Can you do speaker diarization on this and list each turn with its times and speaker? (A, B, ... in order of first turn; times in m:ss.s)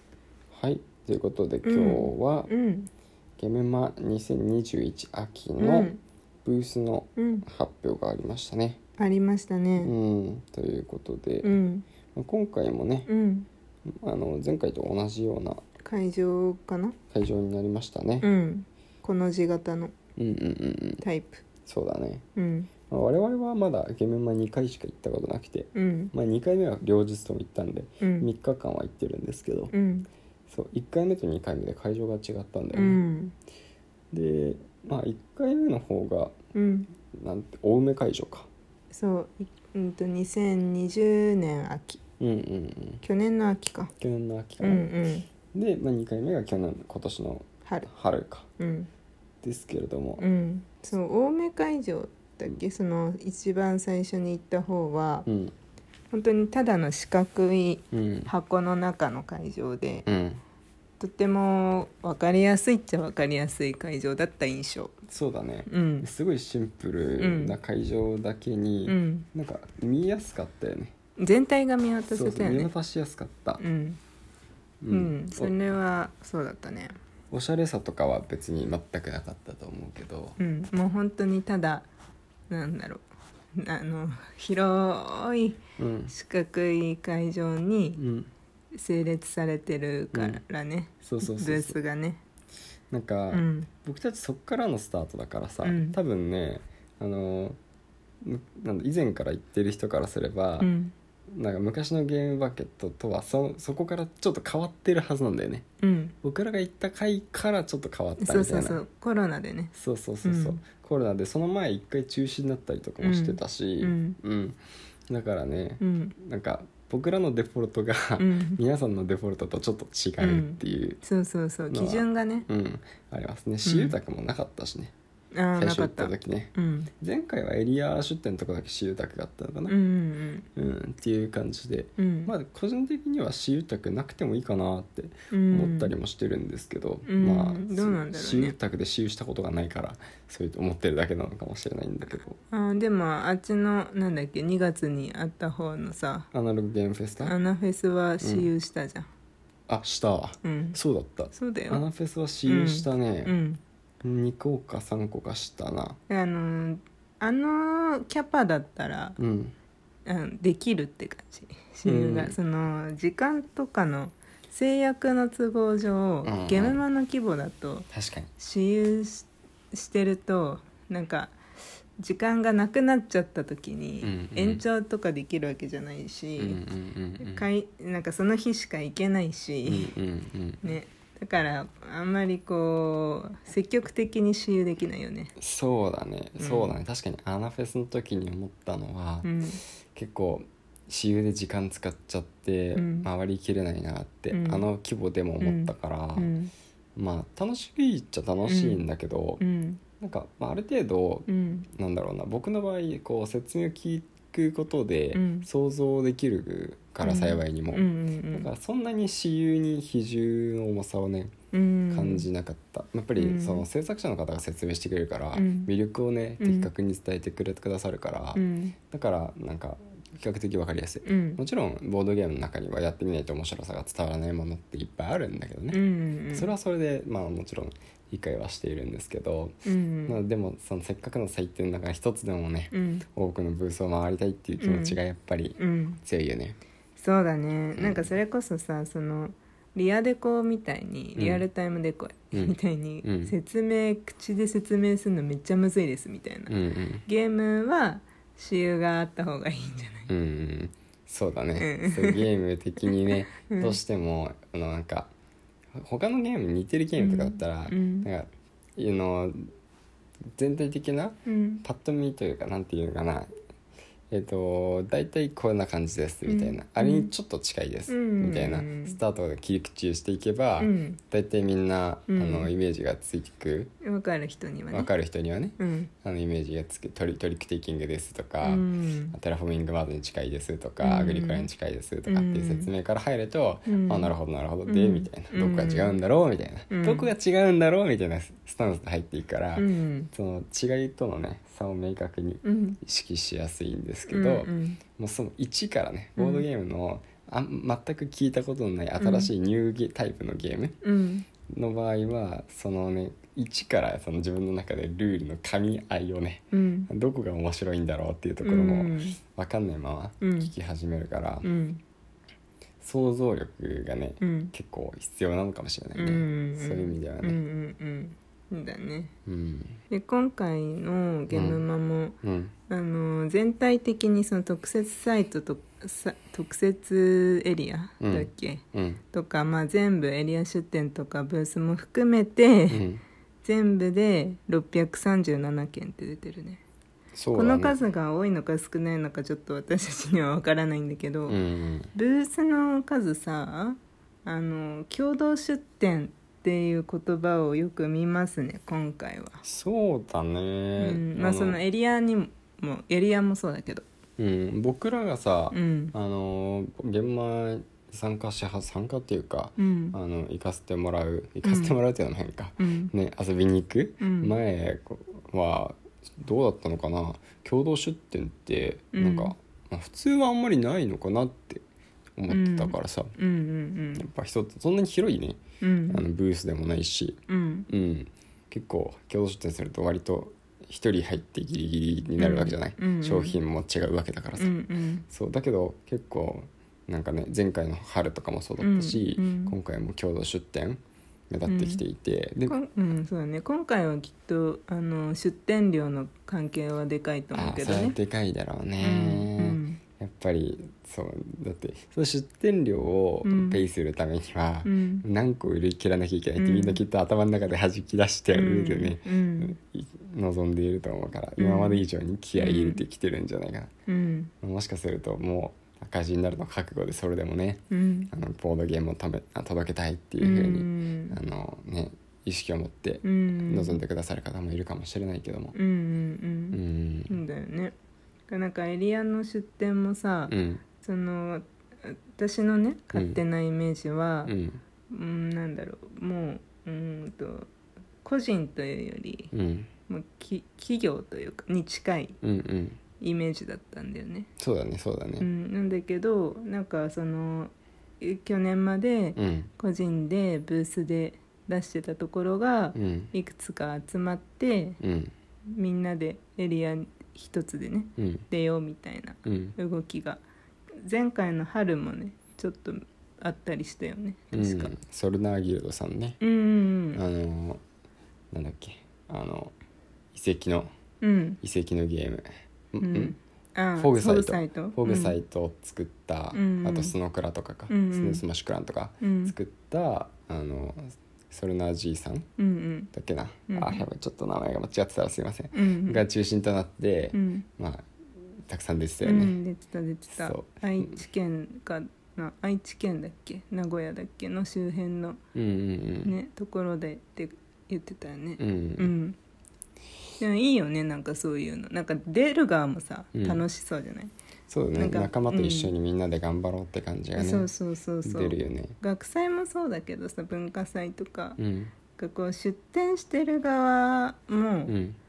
0:00.5-0:02.5 A
0:01.6-0:02.9 B
0:03.4-0:05.9 A
0:05.6-0:06.0 B
0:06.4-0:08.8 A
0:07.2-0:07.4 B
0:09.0-0:09.9 B
0:09.8-0:11.6 A
0:11.4-0:11.8 B
0:12.1-0:13.1 A
0:13.1-0:13.5 B
0:13.9-0:15.6 A
0:15.8-0:17.0 B
0:17.1-0:18.2 A
0:18.2-0:19.9 B
0:20.2-0:21.0 A
0:21.0-0:21.4 B
0:21.6-0:22.2 A
0:22.4-0:22.7 B
0:22.9-0:29.7 A
0:25.7-0:26.1 B
0:28.0-0:28.3 B
0:29.7-0:30.1 B
0:30.5-0:33.0 A
0:32.7-0:33.3 B
0:34.1-0:36.4 A
0:36.5-0:36.9 B
0:37.1-0:38.5 A
0:38.9-0:42.0 B
0:42.2-0:43.0 A
0:43.0-0:43.9 B
0:44.0-0:44.9 A
0:44.6-0:45.2 B
0:45.5-0:48.5 A
0:48.6-0:48.9 B
0:49.4-0:50.2 A
0:50.2-0:55.2 B
0:55.2-0:55.5 A
0:56.1-1:00.0 B
0:57.9-0:58.3 A
1:00.0-1:00.4 A
1:01.0-1:05.0 B
1:05.1-1:10.9 A
1:05.7-1:06.1 B
1:07.2-1:07.5 B
1:08.8-1:09.3 B
1:11.2-1:12.7 B
1:12.1-1:13.6 A
1:13.6-1:14.0 B
1:14.8-1:15.5 A
1:14.9-1:17.0 B
1:17.3-1:20.4 A
1:20.4-1:21.9 B
1:22.5-1:23.0 B
1:23.6-1:28.0 B
1:25.8-1:26.1 A
1:28.0-1:28.3 A
1:28.7-1:32.2 B
1:30.1-1:30.4 A
1:31.0-1:31.8 A
1:32.9-1:37.6 A
1:33.3-1:33.7 B
1:35.6-1:36.0 B
1:38.2-1:40.7 A
1:40.6-1:40.9 B
1:41.3-1:45.6 A
1:45.8-1:46.1 B
1:46.2-1:48.8 A
1:48.2-1:49.7 B
1:49.7-2:01.0 A
1:50.2-1:50.6 B
1:53.0-1:54.2 B
1:55.8-1:56.1 B
1:58.2-1:58.6 B
2:00.2-2:02.4 B
2:01.7-2:04.9 A
2:03.6-2:03.9 B
2:05.3-2:06.9 B
2:05.6-2:09.8 A
2:09.7-2:10.4 B
2:10.6-2:22.4 A
2:12.0-2:12.3 B
2:15.3-2:15.9 B
2:17.0-2:18.6 B
2:22.5-2:26.3 B
2:26.3-2:27.3 A
2:27.2-2:29.1 B
2:28.2-2:28.5 A
2:29.7-2:33.3 A
2:30.4-2:30.8 B
2:31.3-2:31.8 B
2:32.4-2:33.6 B
2:34.0-2:36.0 A
2:36.1-2:39.2 B
2:39.2-2:39.5 A
2:40.0-2:51.3 B
2:41.8-2:42.4 A
2:46.2-2:46.8 A
2:47.9-2:48.3 A
2:52.0-2:56.6 B
2:54.0-2:54.6 A
2:56.4-2:57.5 A
2:57.2-2:59.9 B
2:59.6-3:00.6 A
3:00.6-3:05.3 B
3:05.4-3:09.3 A
3:06.4-3:06.8 B
3:09.2-3:09.6 B
3:09.9-3:16.3 A
3:12.7-3:13.1 B
3:14.3-3:14.6 B
3:15.4-3:16.5 B
3:17.0-3:19.4 A
3:18.5-3:18.8 B
3:19.4-3:19.8 B
3:20.0-3:31.3 A
3:21.3-3:21.6 B
3:25.1-3:25.5 B
3:27.0-3:28.5 B
3:31.5-3:32.3 B
3:31.9-3:56.6 A
3:33.2-3:33.6 B
3:35.4-3:35.7 B
3:36.4-3:36.7 B
3:38.3-3:38.7 B
3:41.0-3:41.4 B
3:45.7-3:46.5 B
3:49.6-3:50.2 B
3:52.7-3:53.0 B
3:54.6-3:55.0 B
3:55.6-3:56.0 B
3:57.0-4:10.1 B
3:57.8-3:58.2 A
4:01.2-4:01.4 A
4:02.3-4:03.3 A
4:06.5-4:07.0 A
4:10.1-4:15.1 A
4:11.6-4:12.2 B
4:12.8-4:13.8 B
4:15.7-4:19.5 A
4:17.0-4:18.1 B
4:20.4-4:23.3 A
4:21.2-4:21.6 B
4:24.1-4:33.7 A
4:26.2-4:27.1 B
4:27.9-4:29.0 B
4:30.6-4:31.0 B
4:32.1-4:32.5 B
4:33.8-4:34.9 B
4:34.7-5:00.8 A
4:35.6-4:35.9 B
4:38.4-4:39.1 B
4:40.8-4:41.5 B
4:42.1-4:42.7 B
4:43.7-4:44.1 B
4:44.6-4:46.0 B
4:46.7-4:47.1 B
4:49.6-4:50.1 B
4:52.4-4:52.8 B
4:54.1-4:54.8 B
4:56.2-4:56.4 B
4:59.0-4:59.3 B
5:00.8-5:01.2 B
5:01.5-5:11.5 A
5:06.5-5:06.9 B
5:08.4-5:09.2 B
5:10.2-5:10.5 B
5:11.4-5:11.8 B
5:12.8-5:17.4 A
5:14.2-5:14.5 B
5:15.9-5:19.1 B
5:19.2-5:19.8 A
5:19.9-5:22.2 B
5:21.3-5:21.6 A
5:22.2-5:22.5 A
5:22.7-5:32.8 B
5:28.0-5:29.0 A
5:32.7-5:33.0 A
5:33.4-5:36.6 B
5:37.1-5:37.8 A
5:37.3-5:41.4 B
5:41.3-5:41.9 A
5:41.9-5:49.4 B
5:49.4-5:51.6 A
5:50.8-5:53.8 B
5:54.2-6:11.6 A
5:55.5-5:55.9 B
5:59.6-6:00.0 B
6:01.4-6:01.8 B
6:02.6-6:02.9 B
6:04.0-6:04.3 B
6:08.9-6:09.3 B
6:12.2-6:13.1 A
6:12.3-6:14.0 B
6:14.0-6:24.5 A
6:15.6-6:16.0 B
6:17.3-6:17.7 B
6:22.2-6:23.4 B
6:24.4-6:25.0 B
6:25.1-6:32.6 A
6:28.6-6:29.5 B
6:31.5-6:31.8 B
6:32.5-6:38.0 B
6:37.3-6:53.7 A
6:38.8-6:39.8 B
6:43.2-6:43.6 B
6:44.6-6:45.0 B
6:46.4-6:46.8 B
6:48.3-6:49.6 B
6:51.4-6:51.8 B
6:52.4-6:52.8 B
6:53.9-6:54.3 B
6:54.4-7:05.6 A
6:57.7-6:58.1 B
7:00.2-7:01.2 B
7:03.0-7:03.8 B
7:05.5-7:07.7 B
7:06.5-7:07.2 A
7:08.3-7:14.3 B
7:10.3-7:10.6 A
7:12.9-7:13.2 A
7:14.2-7:14.6 A
7:14.9-7:17.5 B
7:18.0-7:19.3 B
7:19.3-7:19.7 A
7:19.9-7:22.2 B
7:22.2-7:22.8 A
7:23.0-7:24.3 B
7:24.4-7:25.3 A
7:25.2-7:34.8 B
7:29.2-7:29.5 A
7:32.7-7:33.1 A
7:34.8-7:35.1 A
7:35.5-7:40.2 B
7:38.0-7:38.2 A
7:39.2-7:39.5 A
7:40.8-7:44.7 B
7:44.3-7:46.2 A
7:46.2-7:47.0 B
7:46.9-7:47.6 A
7:48.3-7:49.5 A
7:50.1-7:50.7 A
7:51.0-7:51.4 B
7:51.4-7:53.1 A
7:52.8-7:55.2 B
7:53.8-8:02.3 A
7:56.3-7:56.9 B
7:57.7-7:58.2 B
7:59.0-7:59.3 B
8:02.4-8:02.9 B
8:02.9-8:07.8 A
8:03.5-8:03.8 B
8:05.5-8:06.0 B
8:07.1-8:07.4 B
8:08.4-8:09.4 A
8:09.0-8:15.2 B
8:10.1-8:10.9 A
8:15.3-8:16.1 A
8:16.0-8:19.2 B
8:18.4-8:18.9 A
8:20.2-8:24.1 B
8:23.1-8:23.4 A
8:24.5-8:27.5 A
8:24.7-8:25.7 B
8:27.1-8:31.4 B
8:28.0-8:28.8 A
8:31.4-8:31.7 A
8:31.9-8:34.7 B
8:34.7-8:35.0 A